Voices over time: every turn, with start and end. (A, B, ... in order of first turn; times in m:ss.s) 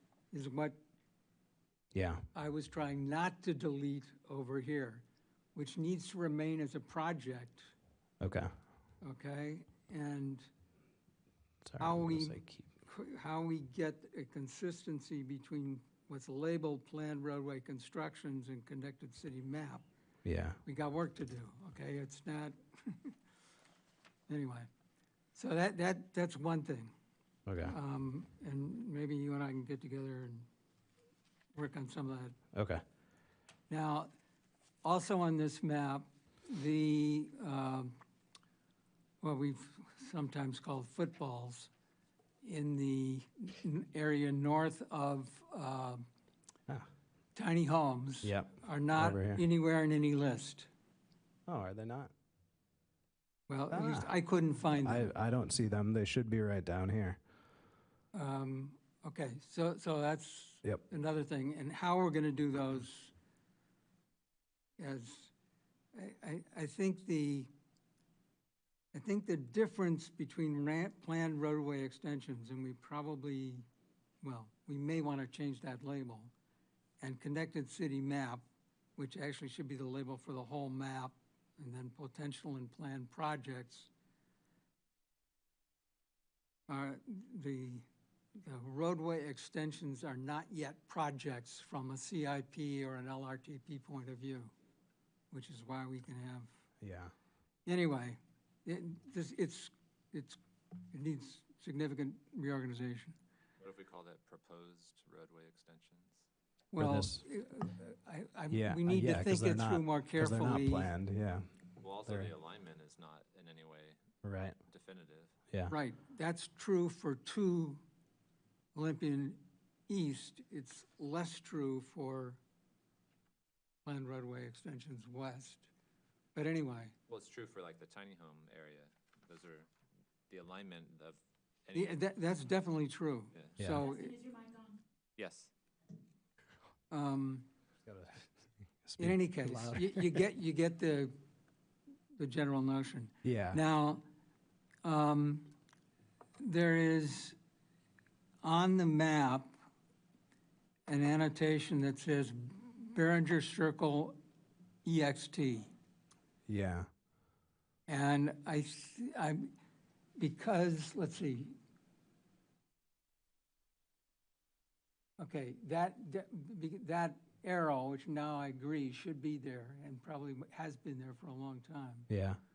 0:00.3-0:00.8 A
0:01.9-0:02.2 B
0:02.3-0:07.7 A
0:08.2-0:08.5 B
0:09.0-0:10.5 A
0:11.6-0:12.7 B
0:11.8-0:19.8 A
0:20.2-0:20.6 B
0:20.6-0:23.1 A
0:24.3-0:24.7 A
0:25.3-0:26.9 A
0:27.4-0:27.7 B
0:27.6-0:30.5 A
0:31.5-0:32.4 A
0:32.5-0:32.8 B
0:33.7-0:34.1 A
0:34.8-0:38.0 A
0:39.2-0:41.7 A
0:42.4-0:46.0 A
0:47.3-0:50.7 A
0:48.2-0:49.4 B
0:51.5-0:52.1 B
0:53.5-0:55.1 A
0:53.7-0:54.1 B
0:54.8-0:57.2 B
0:58.1-1:03.1 A
1:04.8-1:05.3 A
1:05.9-1:07.5 A
1:08.9-1:13.6 A
1:14.2-1:16.3 A
1:17.0-1:18.4 A
1:19.0-1:23.9 A
1:26.7-1:34.5 A
1:35.3-1:36.5 A
1:36.8-1:37.1 B
1:37.6-1:40.4 A
1:40.9-1:43.2 A
1:43.6-1:46.2 C
1:46.7-1:50.9 A
1:46.8-1:47.2 B
1:48.5-1:51.5 B
1:51.8-1:54.0 C
1:52.0-1:52.3 B
1:54.2-1:54.6 B
1:54.7-1:55.3 C
1:55.7-1:57.8 A
1:58.7-2:02.4 A
2:03.8-2:05.7 A
2:06.3-2:06.9 A
2:07.1-2:09.7 C
2:10.3-2:12.0 C
2:11.7-2:14.4 A
2:13.6-2:13.8 B
2:15.2-2:15.5 C
2:16.9-2:17.4 A
2:17.8-2:18.3 B
2:18.8-2:20.2 B
2:19.0-2:21.1 A
2:22.2-2:24.0 A
2:23.2-2:23.6 B
2:24.8-2:25.5 A
2:26.4-2:27.4 A
2:28.4-2:29.5 A
2:30.9-2:34.2 A
2:34.8-2:35.7 A
2:36.5-2:36.9 B
2:37.9-2:39.5 A
2:40.2-2:41.5 A
2:45.2-2:52.1 A
2:52.1-2:52.4 B